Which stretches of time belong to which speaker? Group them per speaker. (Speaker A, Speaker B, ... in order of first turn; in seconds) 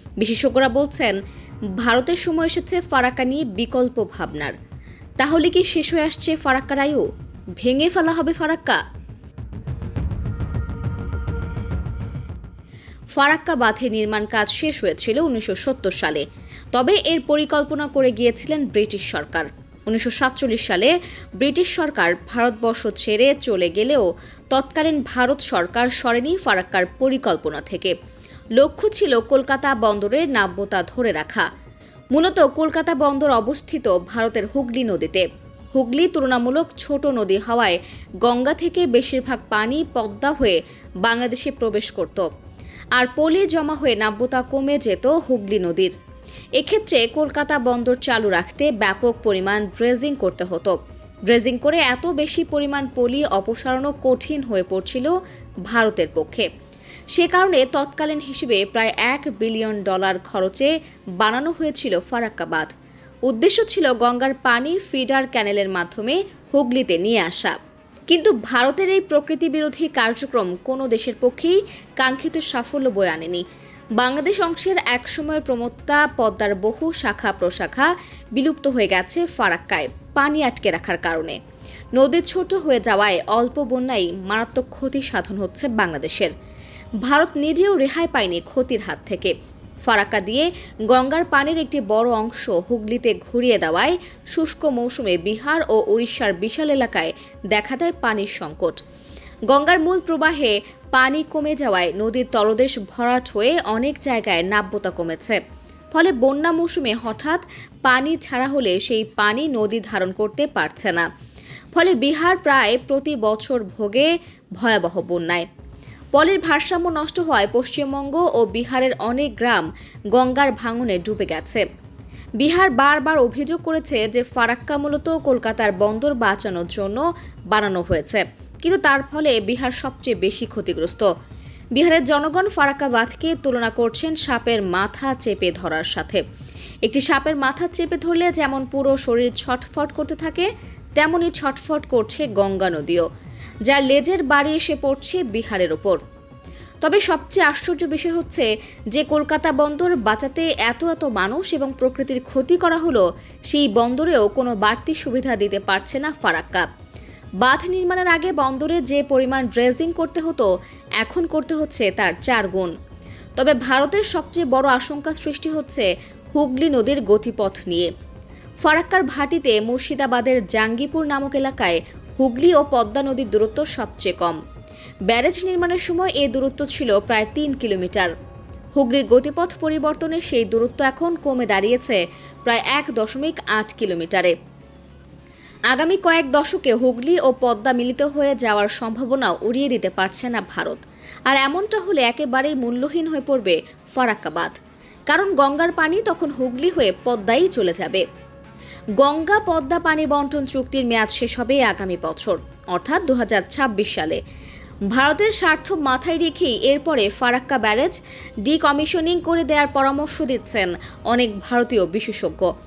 Speaker A: 0.2-1.2, 1.8-4.5, 5.2-7.0, 7.6-8.8, 13.2-27.9, 28.6-31.4, 32.1-42.3, 43.0-45.9, 46.6-50.8, 51.3-55.1, 55.7-56.5, 57.1-62.7, 63.3-67.5, 68.1-73.4, 74.0-81.4, 81.9-86.3, 87.0-89.3, 89.8-98.8, 99.5-105.4, 105.9-111.1, 111.7-115.5, 116.1-121.6, 122.4-131.1, 131.8-136.2, 136.8-143.0, 143.7-146.0, 146.8-156.7, 157.4-160.5, 161.0-162.7, 163.3-167.9, 168.6-174.4, 175.1-178.1, 178.7-184.3, 185.7-194.6, 195.1-198.0, 199.0-204.2, 204.9-212.5